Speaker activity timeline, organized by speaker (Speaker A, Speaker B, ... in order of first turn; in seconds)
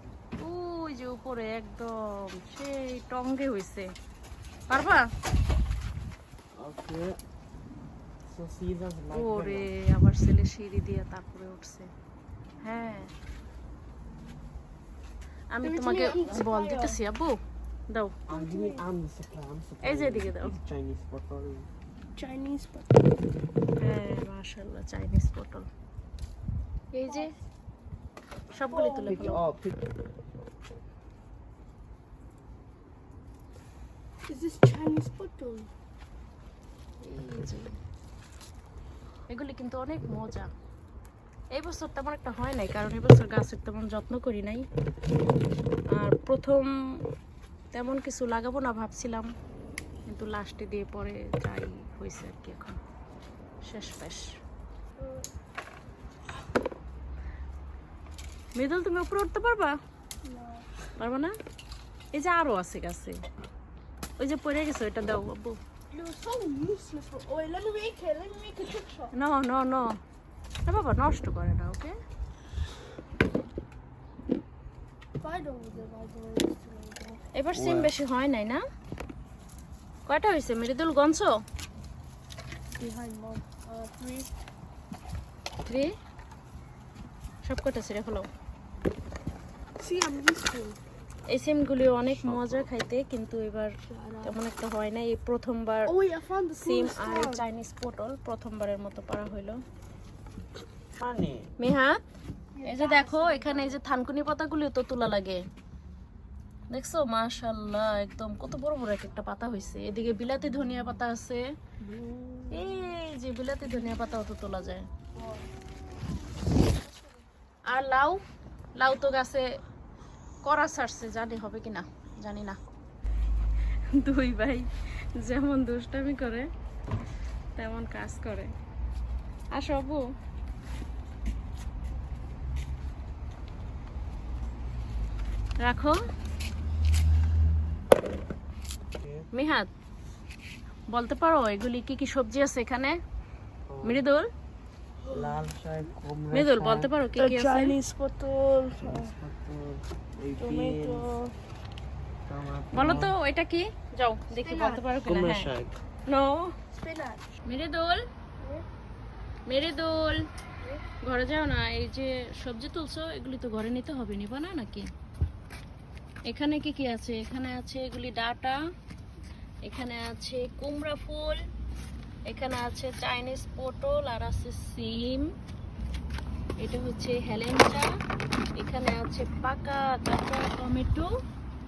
Speaker A: 0.4-1.9, 2.5-3.9, 4.7-5.0, 9.1-11.9, 12.6-13.1, 15.5-17.4, 17.9-18.2, 19.8-20.6, 23.8-25.7, 26.9-27.3, 28.5-29.4, 37.0-37.7, 39.3-40.5, 41.5-44.6, 46.0-46.7, 47.7-49.3, 50.1-52.8, 53.6-54.3, 58.5-59.8, 61.0-61.3, 62.1-63.2, 64.2-65.6, 69.1-69.9, 70.7-71.9, 77.3-78.6, 80.1-81.3, 85.6-85.9, 87.5-88.3, 91.3-93.7, 94.2-95.9, 96.6-99.6, 101.6-102.0, 102.6-105.4, 106.7-111.4, 112.5-114.8, 117.7-118.2, 118.8-119.4, 120.5-122.6, 124.0-126.5, 127.6-128.5, 129.5-130.0, 135.6-136.0, 139.3-139.7, 140.9-143.0, 143.8-144.3, 146.3-147.8, 152.8-155.5, 156.1-156.5, 157.5-158.0, 159.5-160.2, 161.0-164.9, 166.3-168.6, 169.7-171.4, 172.3-175.3, 176.6-177.9, 178.6-181.1
Speaker B: 6.5-7.2, 8.3-9.7, 18.3-21.7, 29.1-29.8, 77.5-77.9, 92.2-92.7, 101.0-101.5, 138.9-139.2, 143.7-144.0, 145.1-146.9, 148.8-151.1, 152.3-153.1, 155.1-155.8
Speaker C: 15.6-17.0, 18.3-18.8, 22.2-23.0, 27.1-27.3, 28.7-29.4, 34.2-35.7, 55.0-55.3, 60.2-60.7, 65.9-69.1, 75.2-77.2, 82.8-84.3, 89.8-90.8, 93.9-94.4, 95.9-97.5, 102.5-103.8, 111.8-112.8, 115.2-115.5, 145.1-145.4, 147.2-149.1, 150.4-151.3, 154.3-154.8, 156.7-157.2, 158.4-158.7